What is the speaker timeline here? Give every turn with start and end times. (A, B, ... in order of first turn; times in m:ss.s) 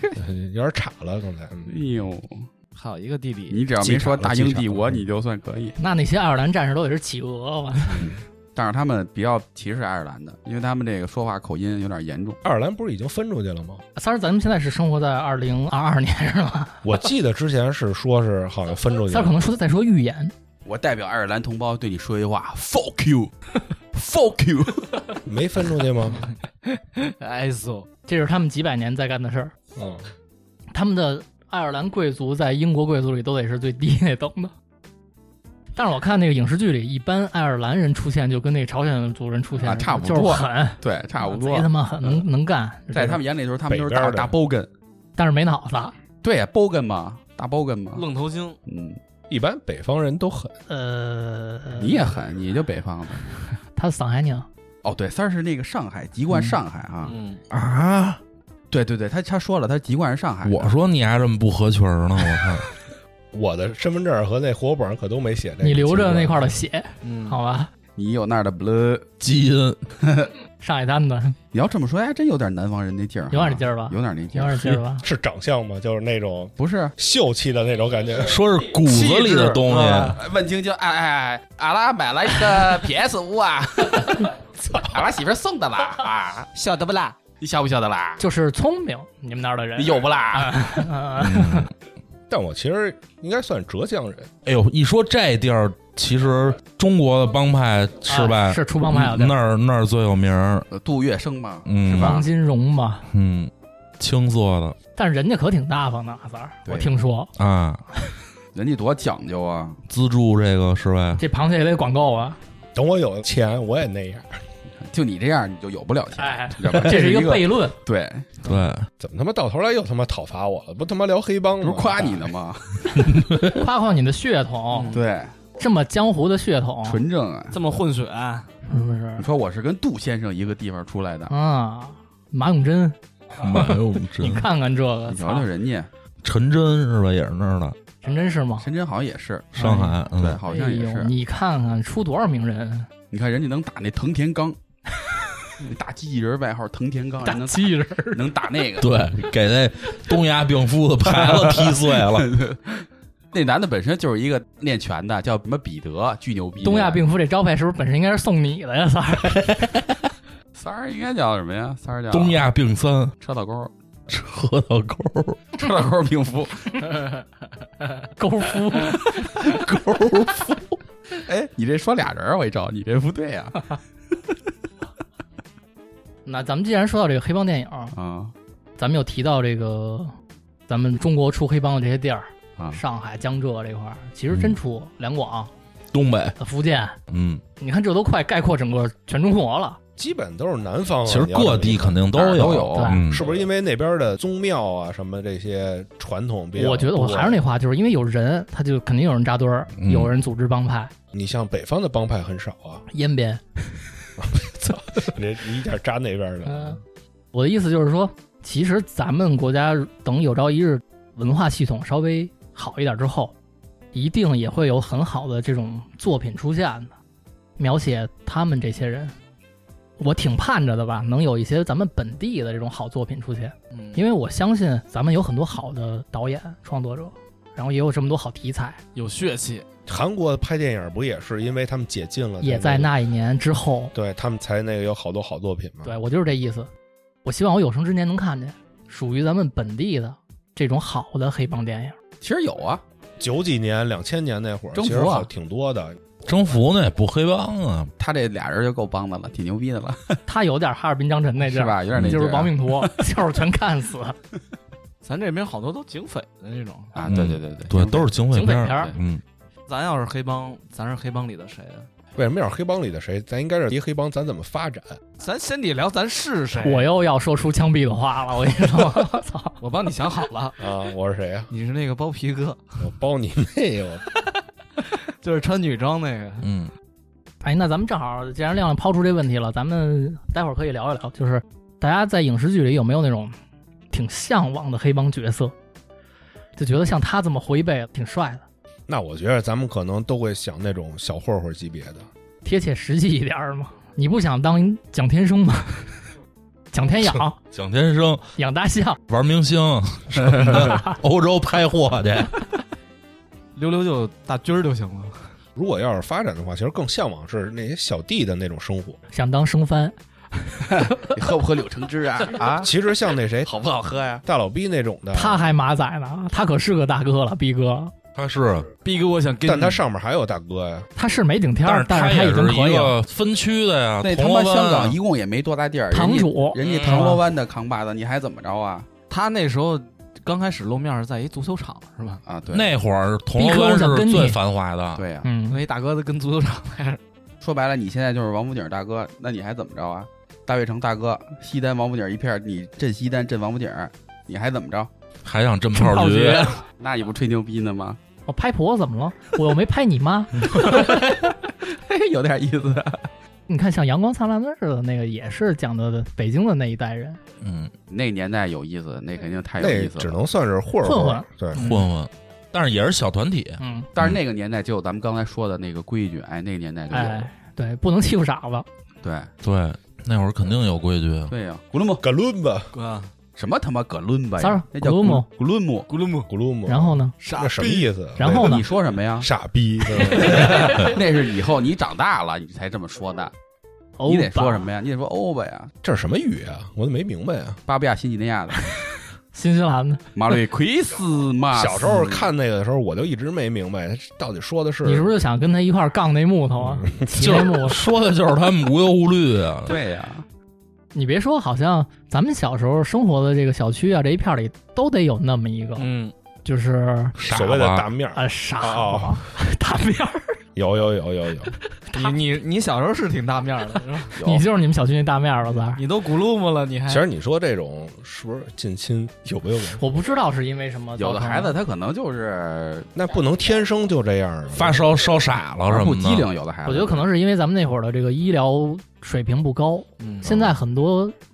0:00.2-0:01.8 A
0:01.7-0:02.5 B
0:02.8-0:03.6 C
0:03.5-0:05.8 B
0:03.8-0:05.0 A
0:05.8-0:08.0 D
0:08.0-0:12.4 B
0:12.4-0:13.8 A
0:14.0-0:16.8 D
0:16.8-0:19.4 A
0:19.1-0:20.3 D
0:20.6-0:23.3 B
0:23.9-0:24.9 B
0:25.3-0:26.2 A
0:26.7-0:27.9 C
0:28.1-0:29.5 D
0:29.8-0:30.1 A
0:30.7-0:34.5 D
0:35.8-0:43.2 D
0:39.6-0:42.2 B
0:42.9-0:44.7 B
0:43.7-0:44.4 A
0:45.2-0:45.9 D
0:46.2-0:48.0 B
0:48.0-0:48.6 C
0:48.7-0:49.0 B
0:49.3-0:50.5 A
0:50.7-0:52.1 D
0:51.8-0:53.3 B
0:53.8-0:54.5 D
0:54.8-0:57.2 B
0:57.0-0:57.4 C
0:57.5-0:58.2 E
0:58.7-1:00.8 B
1:00.4-1:02.7 E
1:03.3-1:06.6 A
1:05.6-1:07.7 D
1:07.0-1:07.4 C
1:08.0-1:09.1 B
1:09.2-1:09.8 E
1:10.0-1:10.3 B
1:10.6-1:11.4 D
1:11.5-1:14.8 B
1:13.3-1:15.0 D
1:15.0-1:18.4 A
1:16.6-1:17.0 B
1:18.2-1:20.2 E
1:18.9-1:20.2 C
1:20.2-1:26.5 B
1:26.5-1:27.2 C
1:27.4-1:28.2 B
1:28.2-1:31.7 D
1:29.8-1:30.7 B
1:31.2-1:31.7 E
1:32.3-1:34.3 A
1:34.4-1:40.7 E
1:38.1-1:39.4 D
1:40.7-1:42.2 B
1:41.7-1:42.2 E
1:41.9-1:43.1 D
1:43.1-1:44.8 E
1:45.0-1:47.3 D
1:46.7-1:46.9 B
1:47.4-1:47.8 E
1:48.5-1:49.8 B
1:49.9-1:51.2 E
1:51.2-1:52.4 D
1:52.7-1:54.4 A
1:54.8-1:58.3 B
1:56.2-1:57.8 D
1:58.4-1:58.9 E
1:59.0-2:02.2 A
2:01.6-2:03.0 B
2:03.5-2:05.0 D
2:04.7-2:05.0 C
2:04.9-2:05.3 B
2:05.6-2:07.0 D
2:06.8-2:07.6 B
2:07.5-2:08.5 C
2:08.7-2:09.3 D
2:09.2-2:11.3 B
2:11.3-2:15.5 D
2:13.4-2:14.5 E
2:15.1-2:15.9 B
2:16.2-2:17.8 E
2:18.0-2:18.7 D
2:18.6-2:19.5 B
2:19.5-2:20.4 E
2:19.6-2:22.9 D
2:20.2-2:21.1 B
2:23.1-2:24.6 B
2:25.6-2:28.9 B
2:27.2-2:28.2 D
2:28.8-2:32.4 E
2:31.1-2:37.0 B
2:36.6-2:39.7 D
2:40.6-2:42.5 B
2:42.1-2:43.1 E
2:43.2-2:43.7 B
2:44.1-2:45.4 E
2:45.6-2:46.9 B
2:48.2-2:49.0 D
2:49.4-2:50.6 E
2:51.2-2:53.6 B
2:56.3-2:58.0 D
2:57.9-2:58.3 B
2:58.8-3:00.1 D
3:00.7-3:05.5 D
3:04.3-3:04.6 E
3:05.9-3:06.4 E
3:06.4-3:07.0 D
3:07.1-3:07.4 E
3:07.6-3:09.8 D
3:10.0-3:12.0 A
3:11.1-3:13.3 E
3:12.1-3:13.0 B
3:12.7-3:13.0 D
3:13.1-3:17.4 A
3:16.6-3:20.9 D
3:19.8-3:20.1 E
3:21.1-3:22.8 A
3:22.9-3:23.6 D
3:24.2-3:26.8 A
3:26.5-3:26.8 D
3:27.3-3:33.3 D
3:33.9-3:36.9 D
3:37.6-3:39.1 D
3:40.0-3:48.8 D
3:43.7-3:44.0 C
3:49.0-3:49.7 C
3:49.9-3:52.9 A
3:52.4-3:53.9 D
3:53.9-3:55.9 A
3:55.8-3:56.7 D
3:57.2-4:02.0 D
4:02.2-4:02.8 B
4:03.2-4:06.0 A
4:04.8-4:05.3 B
4:06.2-4:07.9 E
4:08.0-4:10.2 B
4:10.3-4:14.2 D
4:11.4-4:13.0 B
4:15.0-4:17.0 C
4:17.0-4:18.1 B
4:17.1-4:19.2 E
4:18.3-4:18.9 D
4:19.7-4:21.9 C
4:22.2-4:25.0 A
4:25.2-4:26.9 C
4:26.6-4:29.6 D
4:29.6-4:30.6 C
4:30.6-4:31.5 A
4:31.5-4:32.6 C
4:32.8-4:34.0 A
4:34.8-4:36.5 C
4:36.4-4:36.7 E
4:37.4-4:43.4 D
4:43.9-4:45.5 D
4:46.6-4:48.4 D
4:48.9-4:52.1 A
4:52.4-4:56.0 D
4:56.7-4:57.4 D
4:57.4-4:58.3 E
4:58.4-4:59.0 D
4:59.1-5:02.4 E
5:00.6-5:00.9 D
5:03.6-5:05.3 C
5:05.6-5:09.0 A
5:09.1-5:11.0 D
5:10.7-5:12.7 B
5:12.6-5:13.5 A
5:13.5-5:14.2 B
5:14.2-5:15.5 A
5:15.1-5:17.9 D
5:18.2-5:18.7 E
5:18.8-5:19.8 C
5:19.4-5:20.9 A
5:21.0-5:23.0 D
5:21.6-5:25.0 E
5:24.0-5:28.9 B
5:25.9-5:27.2 D
5:26.6-5:27.1 E
5:29.1-5:32.2 C
5:32.3-5:32.7 B
5:32.5-5:35.0 E
5:33.4-5:34.4 D
5:35.0-5:35.3 B
5:35.2-5:35.6 D
5:35.5-5:37.0 C
5:37.4-5:44.9 B
5:45.2-5:46.6 E
5:45.7-5:46.6 D
5:46.8-5:48.0 B
5:48.3-5:50.8 D
5:50.5-5:53.1 B
5:53.5-5:57.2 D
5:57.4-5:57.7 E
5:57.9-6:00.2 B
5:59.6-6:01.6 A
6:00.8-6:01.9 D
6:01.5-6:04.2 E
6:03.6-6:03.9 D
6:04.0-6:07.3 B
6:06.9-6:08.7 D
6:09.0-6:09.3 B
6:09.4-6:11.3 E
6:11.3-6:12.0 B
6:12.0-6:12.7 A
6:12.7-6:13.1 C
6:13.4-6:15.9 B
6:14.4-6:15.3 D
6:15.9-6:16.3 C
6:16.3-6:18.6 A
6:16.7-6:17.1 D
6:17.2-6:17.9 C
6:18.2-6:18.6 D
6:18.4-6:19.3 B
6:19.2-6:20.6 A
6:20.2-6:23.3 B
6:20.2-6:20.8 C
6:24.0-6:24.7 D
6:24.1-6:25.7 B
6:25.8-6:27.6 A
6:27.7-6:28.6 B
6:29.3-6:30.0 D
6:30.2-6:32.3 B
6:31.5-6:35.1 A
6:34.8-6:37.8 D
6:36.6-6:37.0 A
6:37.2-6:39.8 E
6:39.7-6:40.2 B
6:40.9-6:45.9 D
6:45.8-6:46.1 C
6:46.4-6:47.2 D
6:47.2-6:47.9 E
6:47.3-6:49.3 A
6:48.2-6:50.4 D
6:50.6-6:51.5 A
6:51.8-6:52.2 D
6:51.9-6:54.2 C
6:54.2-6:54.5 B
6:54.2-6:55.8 D
6:55.8-6:57.0 C
6:56.9-6:59.8 A
6:59.8-7:01.6 D
7:01.0-7:02.9 B
7:03.0-7:04.8 A
7:04.5-7:06.3 E
7:05.7-7:07.1 B
7:06.7-7:11.2 D
7:10.0-7:10.3 C
7:10.2-7:10.5 A